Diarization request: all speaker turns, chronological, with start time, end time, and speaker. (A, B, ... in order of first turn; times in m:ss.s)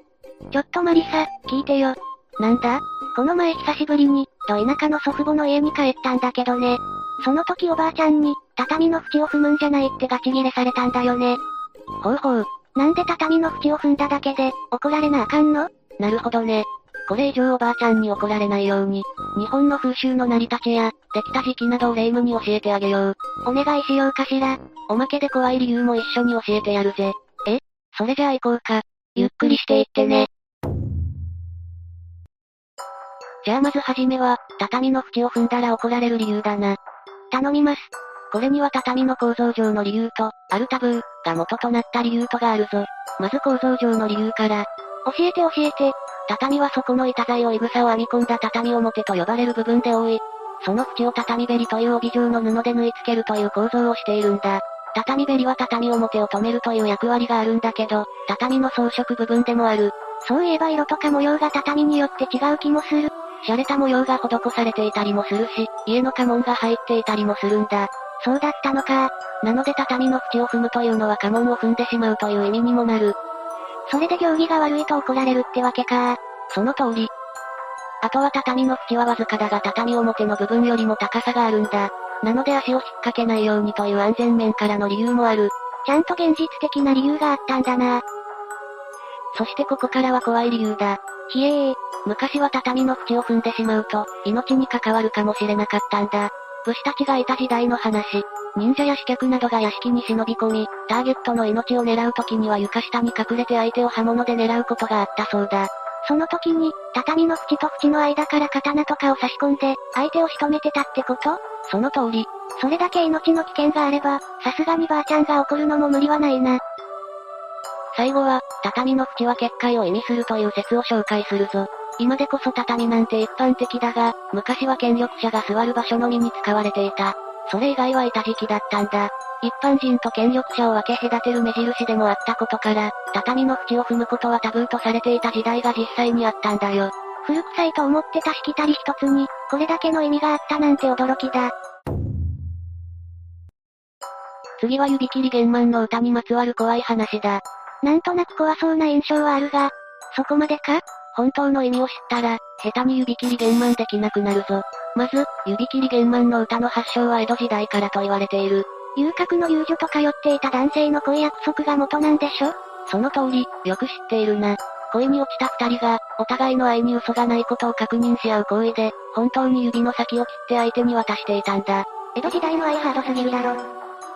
0:00.5-0:11.4 A
0:12.0-0:30.3 A
0:33.4-0:36.8 A
0:37.3-1:13.2 A
1:13.9-1:17.1 A
1:18.0-1:28.0 A
1:29.3-1:56.6 A
1:57.9-2:21.5 A
2:24.6-2:53.6 A